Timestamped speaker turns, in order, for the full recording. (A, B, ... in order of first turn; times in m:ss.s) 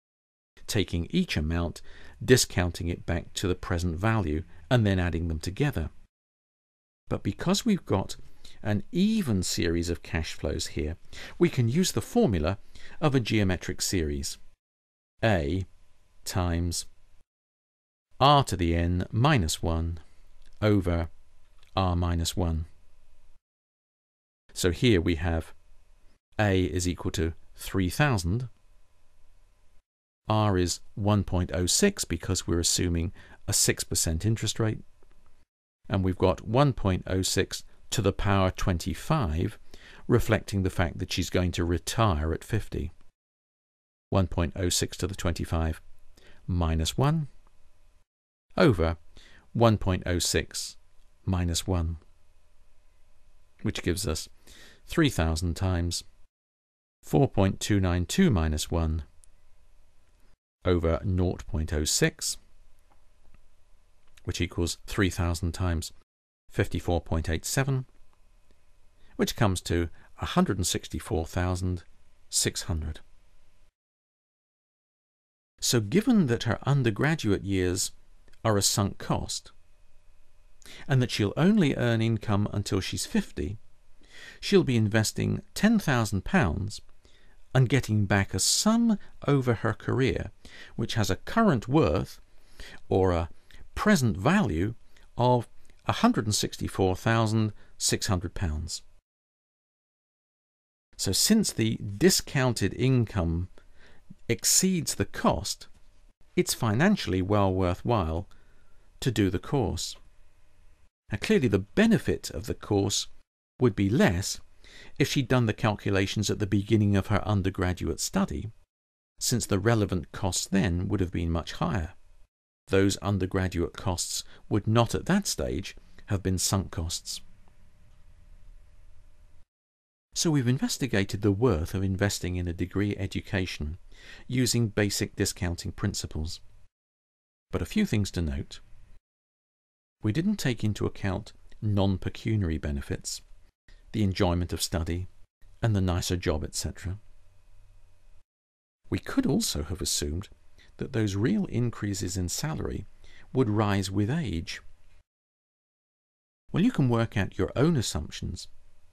0:00.7-0:05.9 A
0:07.1-0:14.4 A
0:15.2-0:15.7 A
0:16.2-0:16.9 A
0:18.2-0:20.0 A
0:20.6-0:21.1 A
0:21.8-0:22.7 A
0:24.5-0:25.6 A
0:26.4-0:28.5 A
0:30.3-0:34.8 A
0:35.9-0:42.9 A
0:44.1-0:45.8 A
0:46.5-0:47.3 A
0:48.6-0:49.0 A
0:49.5-0:52.0 A
0:53.6-0:54.3 A
0:54.9-0:56.0 A
0:57.0-0:59.1 A
1:00.6-1:02.4 A
1:04.2-1:05.9 A
1:06.5-1:07.9 A
1:09.2-1:13.0 A
1:15.6-1:17.9 A
1:18.4-1:19.5 A
1:20.9-1:23.6 A
1:24.4-1:26.8 A
1:27.5-1:32.2 A
1:32.9-1:38.8 A
1:41.0-1:43.5 A
1:44.3-1:45.7 A
1:46.4-1:48.3 A
1:49.0-1:50.0 A
1:51.1-1:54.4 A
1:55.0-1:58.5 A
1:59.2-2:02.0 A
2:02.7-2:07.2 A
2:10.2-2:16.4 A
2:17.5-2:18.6 A
2:20.0-2:23.2 A
2:23.9-2:25.1 A
2:25.6-2:27.0 A
2:28.9-2:34.6 A
2:36.5-2:38.5 A